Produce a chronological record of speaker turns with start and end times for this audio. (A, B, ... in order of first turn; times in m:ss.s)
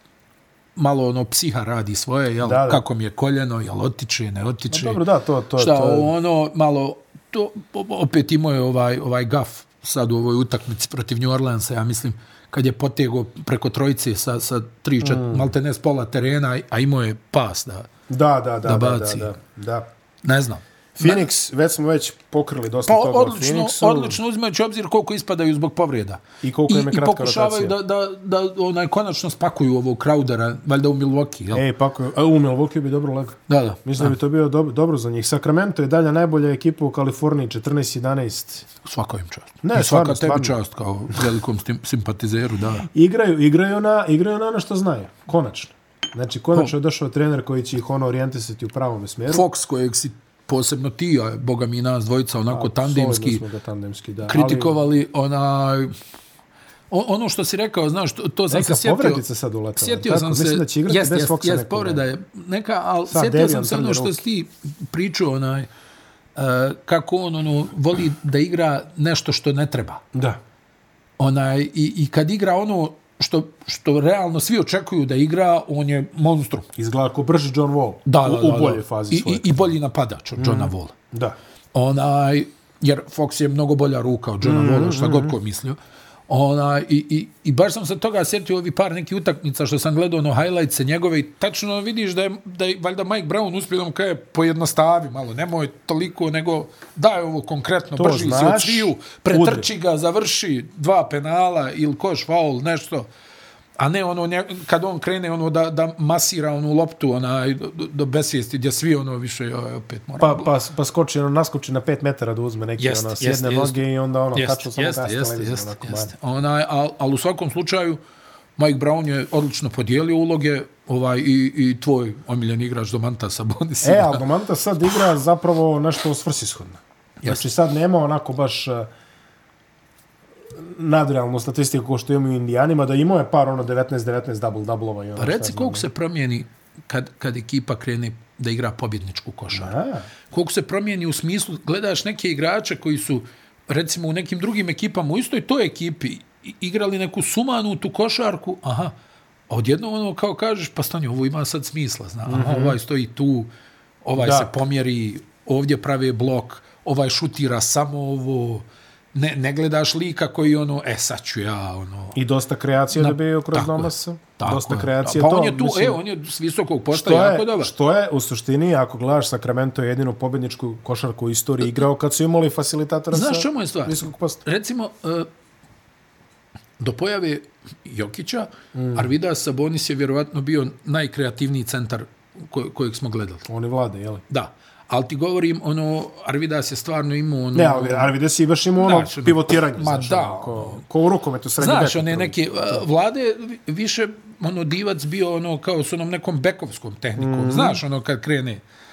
0:00.8-0:05.0 A
0:02.4-0:02.8 B
0:04.7-0:06.1 B
0:05.6-0:17.9 A
0:15.0-0:15.5 B
0:18.1-0:19.9 B
0:18.6-0:19.3 A
0:20.2-0:21.3 A
0:21.0-0:24.2 B
0:22.9-0:31.6 A
0:26.4-0:27.8 B
0:31.5-0:38.7 B
0:33.5-0:34.1 A
0:38.8-0:42.9 A
0:39.6-0:40.6 B
0:42.9-0:49.5 B
0:49.3-0:53.4 A
0:52.5-0:54.8 B
0:54.3-0:55.9 A
0:56.9-0:59.2 A
0:58.5-1:02.0 B
0:59.8-1:05.7 A
1:03.1-1:04.2 B
1:06.4-1:10.0 A
1:10.1-1:10.4 B
1:11.2-1:16.7 A
1:16.8-1:19.8 B
1:18.1-1:21.0 A
1:20.4-1:21.4 B
1:21.7-1:25.8 A
1:24.4-1:25.4 B
1:26.3-1:43.1 A
1:38.0-1:39.7 B
1:43.8-1:50.5 A
1:50.2-1:56.1 B
1:52.8-1:53.8 A
1:54.3-1:58.0 A
1:58.6-2:04.2 A
2:03.8-2:08.9 B
2:10.5-2:15.9 B
2:15.2-2:19.7 A
2:19.5-2:20.1 B
2:20.3-2:28.9 A
2:29.5-2:33.5 A
2:32.3-2:32.8 B
2:34.0-2:42.2 A
2:34.2-2:34.5 B
2:42.2-2:46.0 B
2:43.0-2:47.7 A
2:46.9-2:54.4 B
2:53.1-2:55.3 A
2:56.8-3:03.4 A
2:58.7-2:59.1 B
3:03.5-3:04.2 B
3:04.3-3:08.2 A
3:07.5-3:12.8 B
3:08.8-3:10.8 A
3:11.6-3:18.6 A
3:17.2-3:17.8 B